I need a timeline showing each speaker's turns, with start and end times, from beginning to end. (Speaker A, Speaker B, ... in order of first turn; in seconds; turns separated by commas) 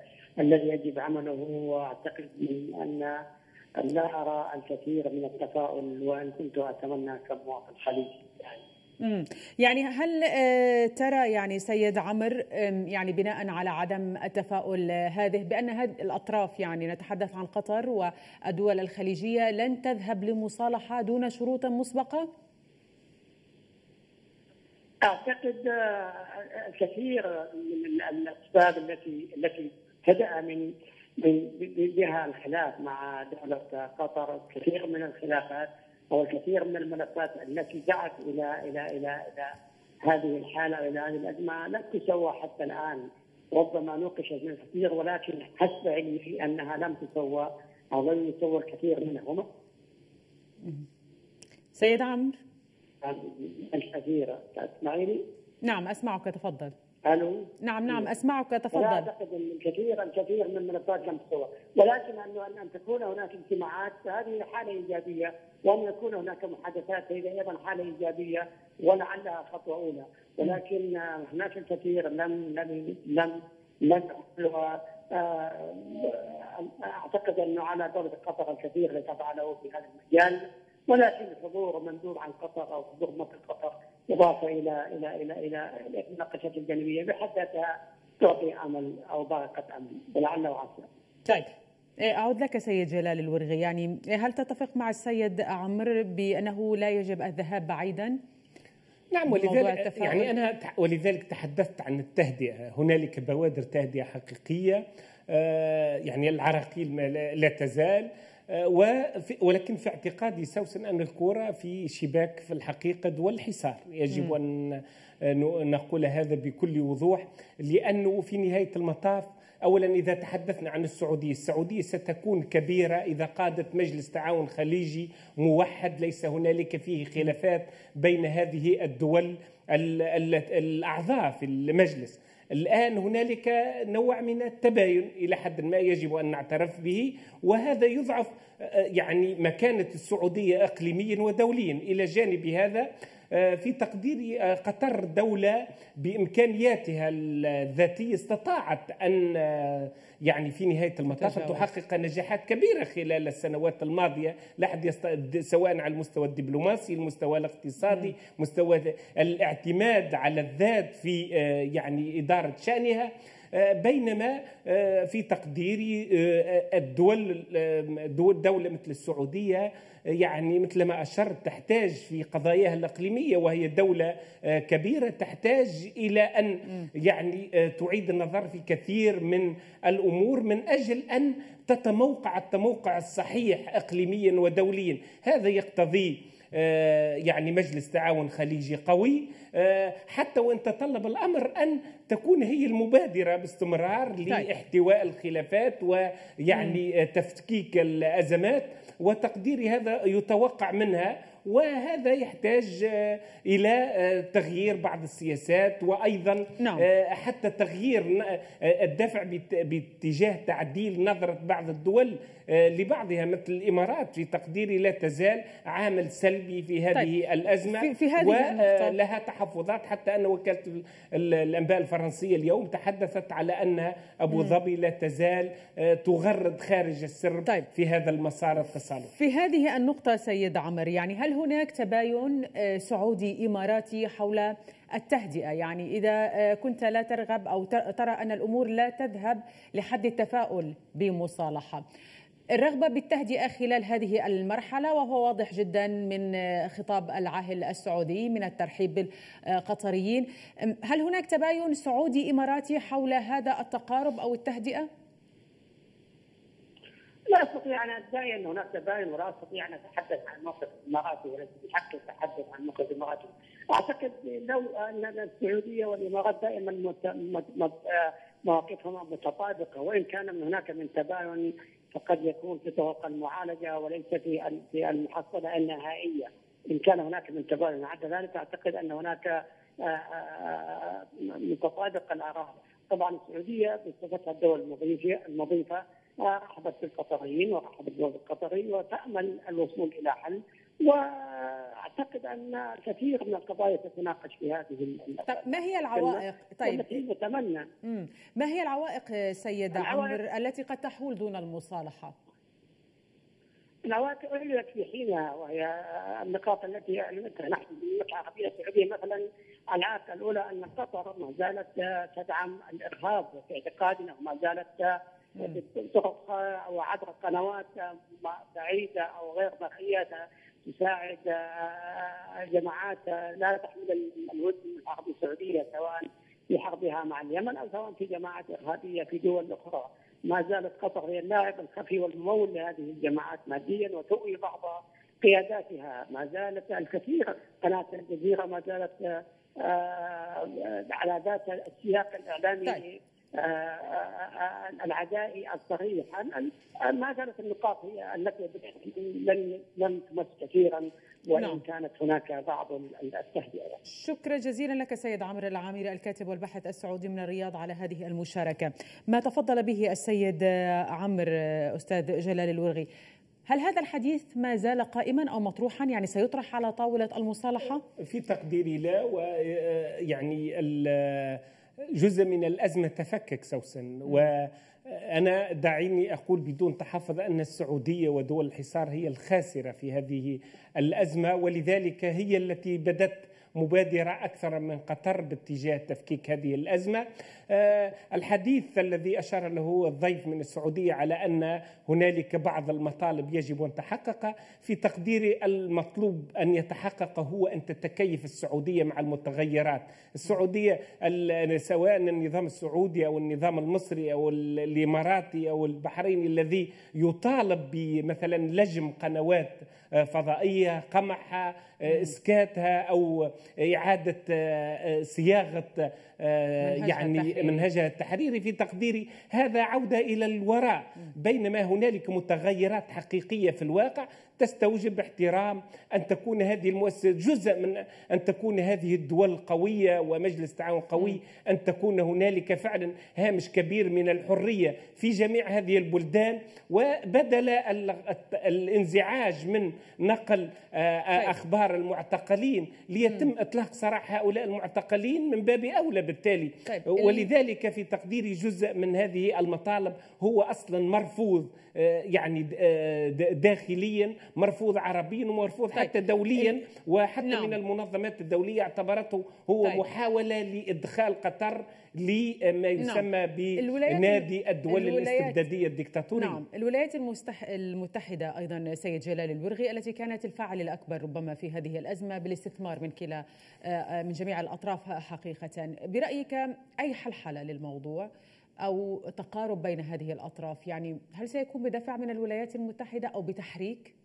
Speaker A: 0.4-3.1, Speaker A: 3.8-8.6, Speaker B: 9.0-22.3, Speaker A: 25.0-30.6, Speaker A: 31.2-39.5, Speaker A: 40.0-49.5, Speaker B: 51.7-52.4, Speaker A: 53.0-55.2, Speaker B: 55.6-56.7, Speaker A: 57.1-58.1, Speaker B: 57.6-59.1, Speaker A: 58.7-87.7, Speaker A: 88.2-90.9, Speaker B: 91.2-98.2, Speaker C: 99.1-229.1, Speaker B: 99.3-100.3, Speaker B: 151.2-151.6, Speaker B: 206.6-206.9, Speaker B: 217.7-219.0, Speaker B: 224.3-224.6, Speaker B: 229.1-241.8, Speaker B: 242.5-254.9, Speaker A: 257.3-297.6, Speaker B: 295.3-296.9, Speaker B: 297.8-302.1, Speaker A: 299.7-300.2, Speaker A: 303.9-339.1, Speaker A: 339.6-353.8, Speaker B: 351.4-351.6, Speaker B: 353.9-362.9, Speaker B: 363.4-367.8, Speaker C: 368.0-371.4, Speaker C: 371.9-466.4, Speaker B: 416.6-417.6, Speaker B: 446.7-447.3, Speaker B: 455.7-456.5, Speaker B: 457.2-457.6, Speaker B: 462.8-463.1, Speaker B: 463.6-465.4, Speaker B: 466.1-478.1, Speaker B: 478.6-483.9